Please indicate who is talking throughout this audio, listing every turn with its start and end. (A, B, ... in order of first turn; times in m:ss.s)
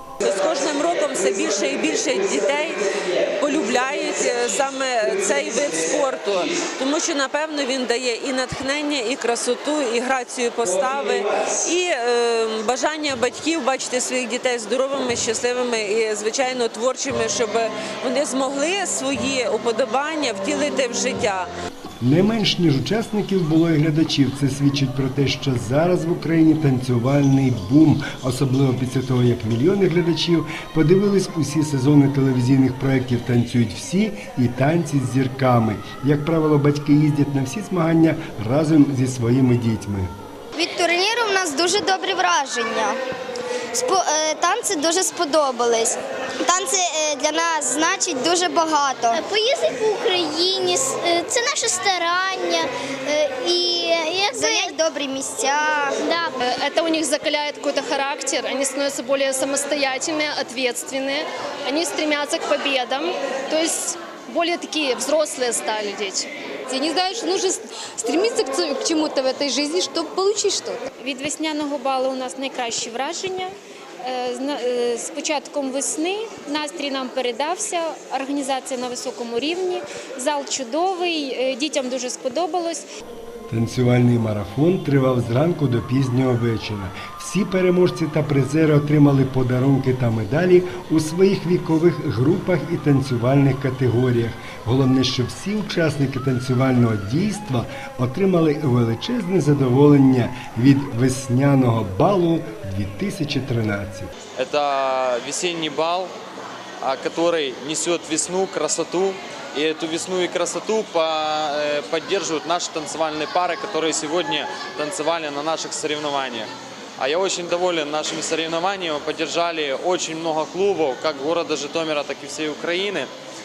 0:00.2-0:21.5 A
0:22.0-0:40.1 B
0:40.6-0:43.0 C
0:43.7-0:49.2 C
0:49.1-0:54.8 D
0:54.3-0:56.0 C
0:56.0-0:56.3 D
0:56.4-1:06.3 E
1:06.7-1:10.8 F
1:11.0-1:13.5 G
1:14.0-1:22.8 G
1:23.5-1:44.1 B
1:44.4-1:46.1 H
1:46.8-2:03.1 H